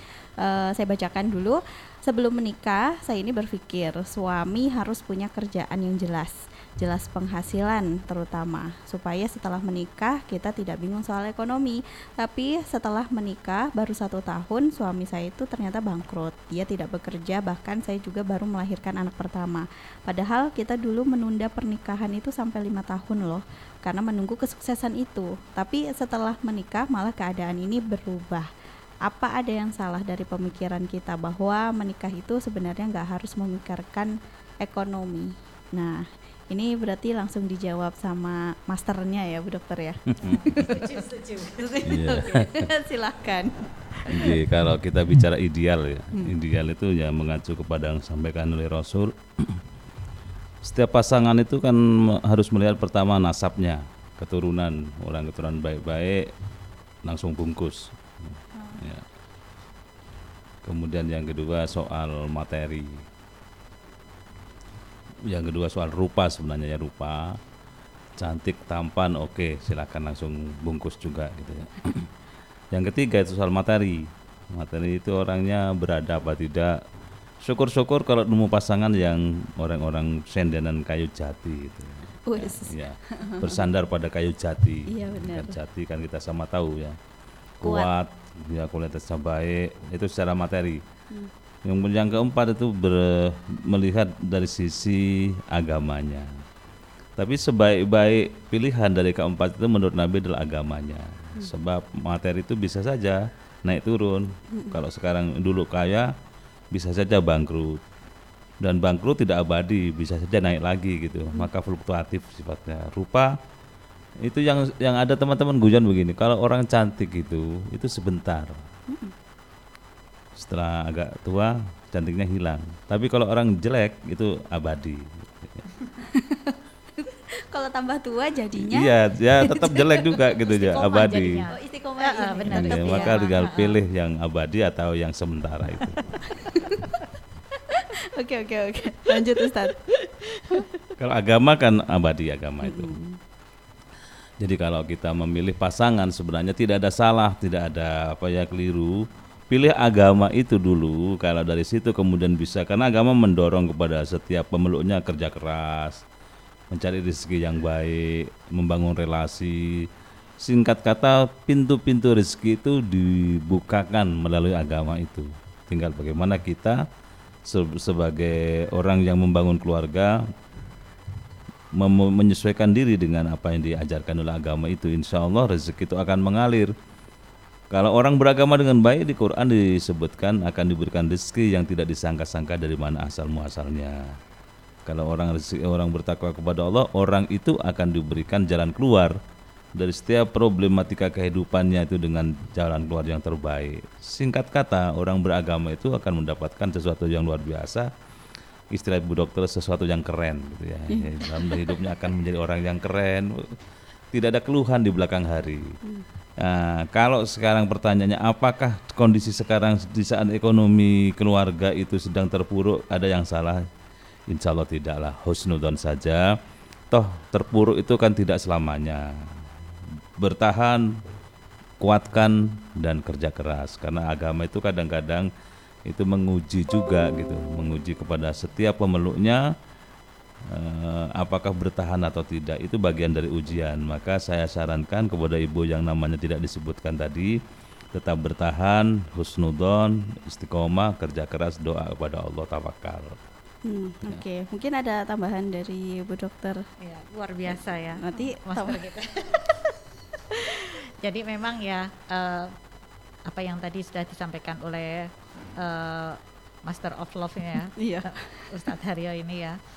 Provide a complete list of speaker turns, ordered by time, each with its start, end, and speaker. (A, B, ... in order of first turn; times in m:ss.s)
0:00.4-0:28.5 A
0:29.0-0:44.4 A
0:40.1-0:40.7 B
0:40.2-0:42.2 C
0:41.8-0:42.7 B
0:44.1-0:49.6 B
0:50.6-0:56.3 B
0:57.0-0:59.0 B
0:58.6-0:58.8 A
1:00.6-1:03.0 B
1:05.2-1:07.4 B
1:08.2-1:12.1 B
1:12.7-1:16.8 B
1:17.4-1:27.0 B
1:22.3-1:23.6 A
1:24.9-1:25.6 A
1:27.6-1:30.8 B
1:27.6-1:27.9 A
1:31.6-1:36.3 B
1:37.2-1:46.1 B
1:44.5-1:44.8 A
1:46.7-1:47.8 B
1:48.6-1:53.4 B
1:54.2-1:58.7 B
1:58.9-1:59.1 A
2:00.4-2:05.6 B
2:06.0-2:10.2 A
2:08.6-2:11.4 B
2:10.5-2:13.8 C
2:11.5-2:13.3 A
2:12.5-2:16.2 B
2:16.3-2:16.9 A
2:17.7-2:19.8 A
2:19.9-2:20.7 C
2:21.0-2:23.0 B
2:22.6-2:23.2 A
2:24.4-2:36.0 B
2:36.7-2:39.9 B
2:40.4-2:46.8 B
2:47.4-2:50.3 B
2:51.8-2:56.7 B
2:57.7-3:04.2 B
3:04.8-3:09.2 B
3:09.8-3:17.9 B
3:18.7-3:23.6 B
3:20.9-3:21.6 A
3:24.1-3:25.8 B
3:26.4-3:33.7 B
3:34.3-3:36.4 B
3:36.9-3:39.5 B
3:40.2-3:41.0 B
3:41.8-3:45.3 B
3:45.8-3:49.5 B
3:50.4-3:57.4 B
3:57.9-4:03.2 B
4:03.6-4:06.6 A
4:06.8-4:09.5 C
4:07.5-4:09.0 A
4:10.3-4:12.5 C
4:13.2-4:19.6 C
4:17.8-4:18.5 A